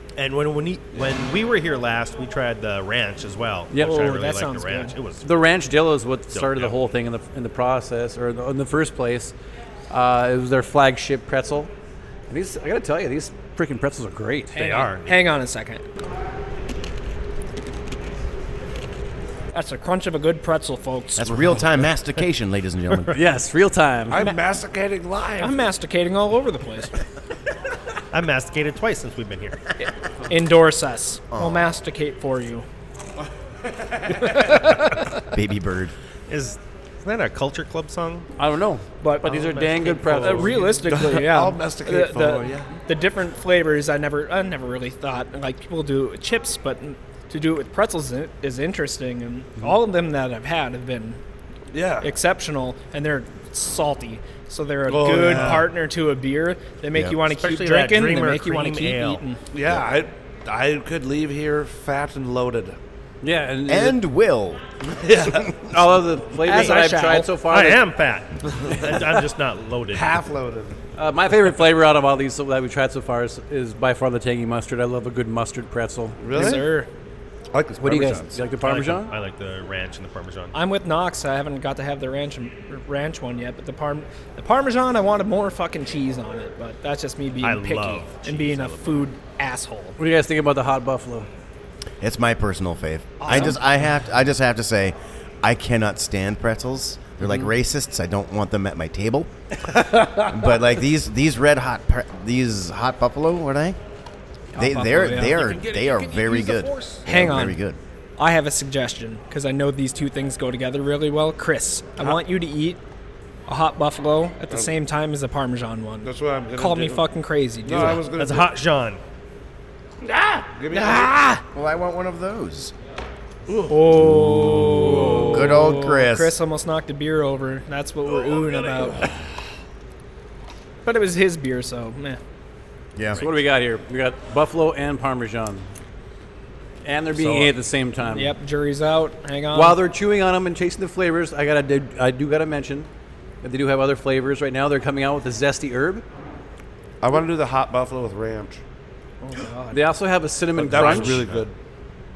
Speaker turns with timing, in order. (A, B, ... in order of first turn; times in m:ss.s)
0:00.2-0:05.3 A
0:03.7-0:04.4 B
0:03.7-0:05.0 C
0:05.2-0:09.3 B
0:06.3-0:06.8 A
0:09.9-0:11.7 B
0:12.3-0:14.9 B
0:14.6-0:15.2 A
0:14.6-0:15.8 C
0:19.5-0:21.3 C
0:21.2-0:23.2 D
0:23.1-0:24.3 B
0:24.1-0:25.6 E
0:25.4-0:27.0 C
0:28.1-0:29.7 A
0:29.8-0:32.6 C
0:31.3-0:31.6 D
0:33.8-0:34.3 E
0:34.3-0:35.0 C
0:35.2-0:35.9 D
0:36.3-0:38.3 A
0:38.4-0:40.8 B
0:39.0-0:51.2 C
0:39.4-0:40.7 A
0:40.9-0:42.8 E
0:51.7-0:52.1 E
0:52.0-0:59.4 C
0:54.9-0:55.7 E
0:56.9-0:57.2 D
0:57.4-0:59.2 A
0:59.5-1:02.8 E
1:03.2-1:04.0 B
1:03.7-1:04.6 D
1:04.9-1:05.6 E
1:05.6-1:07.9 B
1:06.4-1:07.4 C
1:07.4-1:10.2 A
1:09.9-1:10.8 E
1:11.0-1:16.2 B
1:16.2-1:16.8 E
1:16.3-1:16.9 C
1:17.5-1:18.4 E
1:17.8-1:19.1 B
1:18.6-1:20.6 A
1:20.5-1:30.0 C
1:27.4-1:29.1 A
1:30.0-1:31.3 B
1:32.0-1:39.3 D
1:33.2-1:33.5 A
1:40.0-1:43.8 D
1:44.5-1:45.6 C
1:44.6-1:47.8 D
1:45.4-1:47.0 A
1:47.0-1:47.6 C
1:48.2-1:52.8 C
1:53.5-1:58.1 C
1:56.0-1:57.1 E
1:57.6-1:58.6 E
1:58.1-1:59.0 A
2:00.0-2:01.3 E
2:00.7-2:01.4 C
2:01.5-2:02.7 D
2:03.5-2:03.7 E
2:03.7-2:09.1 C
2:03.9-2:06.4 D
2:08.1-2:09.1 E
2:10.8-2:12.2 C
2:13.0-2:13.2 D
2:13.2-2:15.6 B
2:16.8-2:18.3 B
2:17.2-2:17.5 E
2:18.0-2:19.8 C
2:19.5-2:22.9 B
2:23.4-2:26.0 B
2:27.0-2:28.6 E
2:29.2-2:29.8 C
2:29.7-2:31.3 B
2:30.5-2:31.6 E